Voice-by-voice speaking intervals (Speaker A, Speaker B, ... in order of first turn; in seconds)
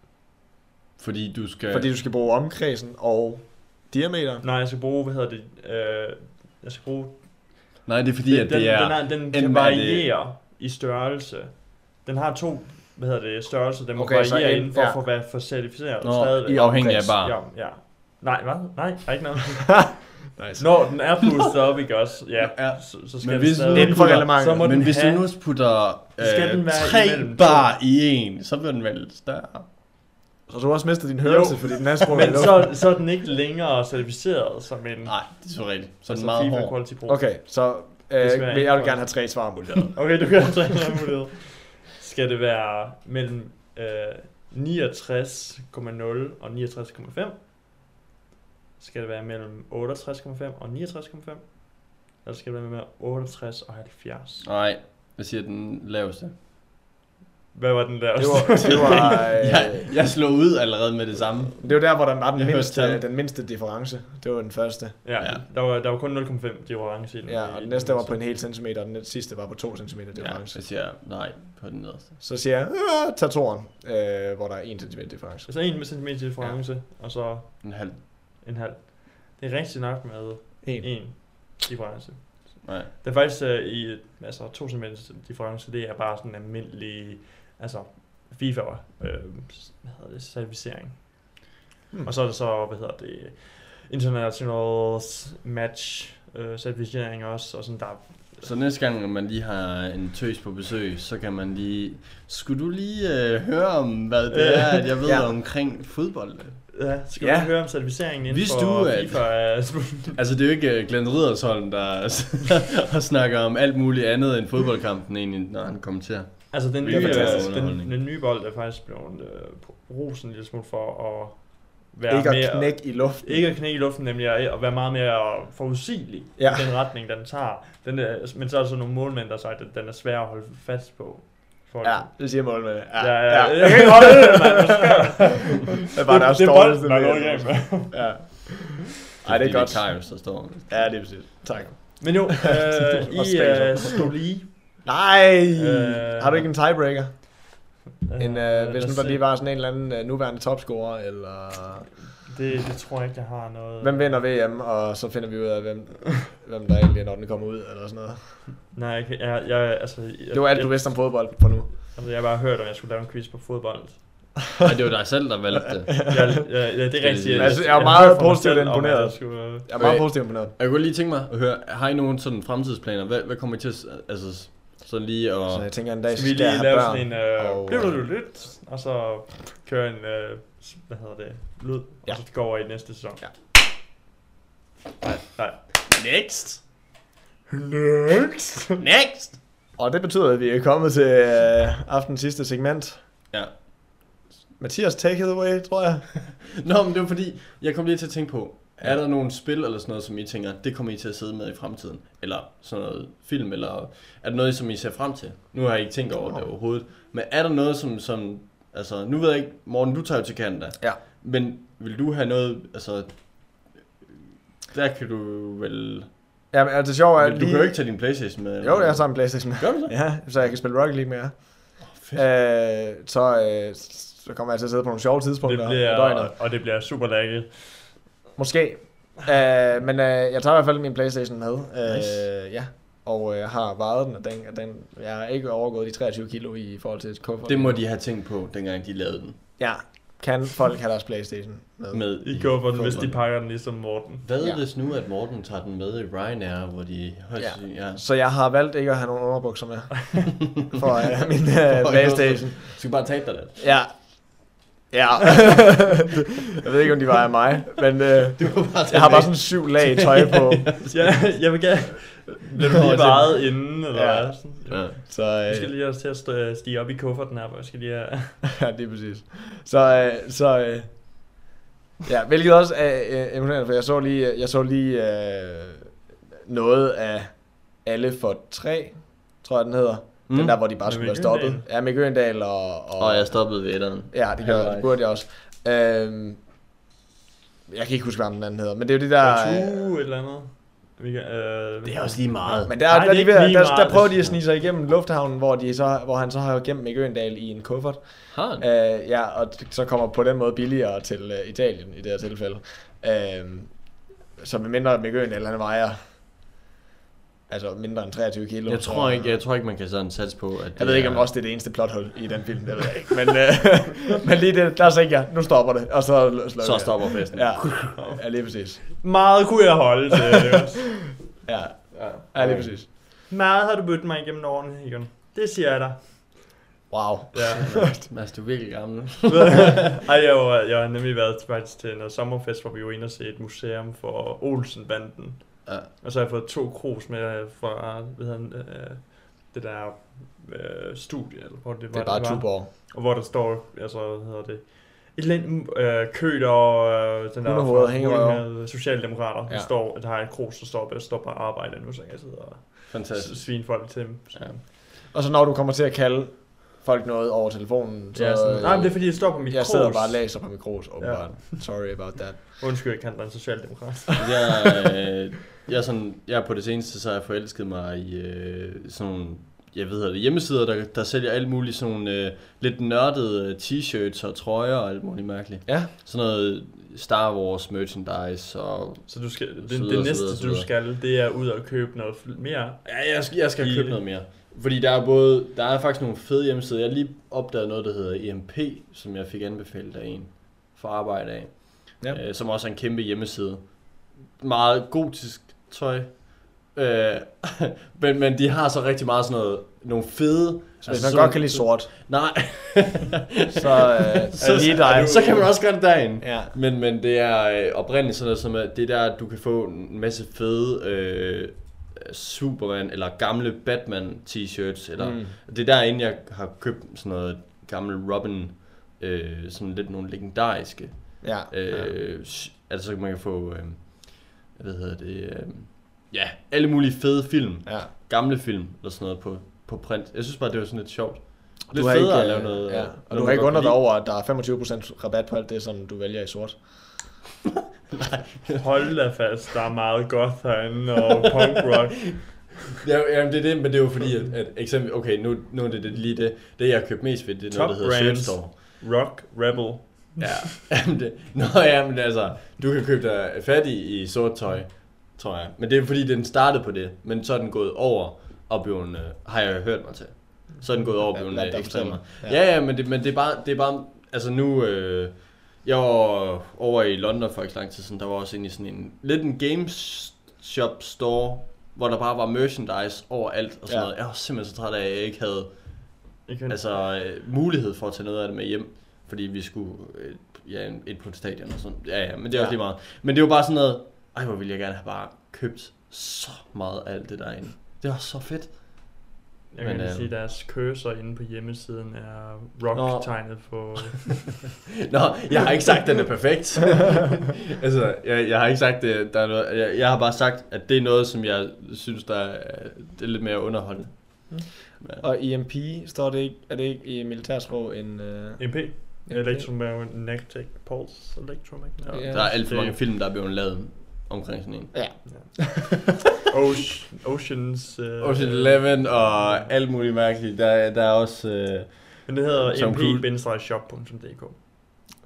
Speaker A: 1.0-1.9, 7.8-10.1, 16.0-17.4, 22.4-29.7, 35.0-36.8, 54.4-56.3, 58.6-63.0, 70.1-72.1, 77.6-78.0, 98.4-106.6, 108.3-109.4, 110.1-117.9, 139.2-141.0, 164.6-166.4, 167.0-168.0, 169.8-175.7, 185.9-186.6, 188.8-189.4, 193.3-193.6, 196.6-213.9, 214.7-216.1, 217.2-219.9, 221.8-222.2, 231.8-232.2, 237.4-239.4, 241.9-243.2, 244.2-248.0, 251.7-253.6, 258.4-260.9, 262.6-263.6, 264.7-265.0, 280.3-280.6, 283.0-284.9, 291.8-292.7, 298.3-298.6, 308.7-311.3, 316.6-317.9, 321.9-322.7, 327.6-329.7, 352.9-354.6, 364.2-380.7, 382.9-433.8, 437.9-438.6, 442.8-448.5, 450.2-490.1, 494.9-505.0, 511.9-515.0, 518.0-523.1
Speaker B: 1.7-4.4, 13.9-15.0, 16.5-17.2, 20.3-20.7, 23.7-24.7, 30.5-32.8, 37.1-39.9, 58.2-59.9, 61.6-65.0, 67.2-70.6, 72.2-75.5, 80.6-81.1, 105.0-105.3, 107.2-107.5, 116.8-117.5, 122.1-123.5, 126.4-126.7, 131.8-135.2, 135.9-144.0, 144.8-147.6, 148.2-151.9, 153.8-158.4, 160.3-161.7, 167.3-170.5, 175.5-178.0, 182.1-183.3, 189.8-193.0, 194.6-196.1, 206.2-206.4, 216.5-226.3, 228.3-237.8, 239.6-243.1, 247.3-260.8, 263.9-265.7, 268.6-271.3, 272.1-286.4, 287.7-289.8, 292.6-306.0, 307.5-309.4, 310.8-318.8, 321.4-322.9, 326.9-327.9, 341.9-342.7, 347.4-348.7, 355.1-362.6, 375.6-375.9, 400.8-401.9, 403.5-406.5, 415.0-415.4, 421.2-421.9, 427.6-427.9, 431.7-437.1, 460.9-462.4, 473.7-473.9, 482.3-482.6, 492.7-493.5, 504.3-509.5, 511.9-512.3, 514.7-515.6
Speaker C: 4.4-7.7, 8.2-25.3, 26.2-27.7, 31.2-35.3, 36.1-37.5, 38.2-47.4, 48.8-54.5, 57.5-59.3, 65.0-68.2, 75.5-91.5, 92.0-98.5, 104.3-104.9, 106.7-110.2, 116.5-138.1, 142.0-144.9, 145.5-146.5, 148.0-149.3, 152.3-154.3, 158.7-164.4, 166.1-169.7, 176.1-183.2, 185.0-185.6, 187.5-188.7, 225.4-228.0, 242.2-244.2, 260.9-268.4, 280.8-281.6, 289.2-294.3, 317.9-321.0, 323.3-326.4, 327.3-327.7, 329.3-354.6, 358.1-364.2, 379.1-384.0, 404.4-405.5, 438.6-442.4, 447.5-450.3, 476.3-476.6, 489.5-494.3, 508.4-512.8, 515.0-519.5, 522.0-524.4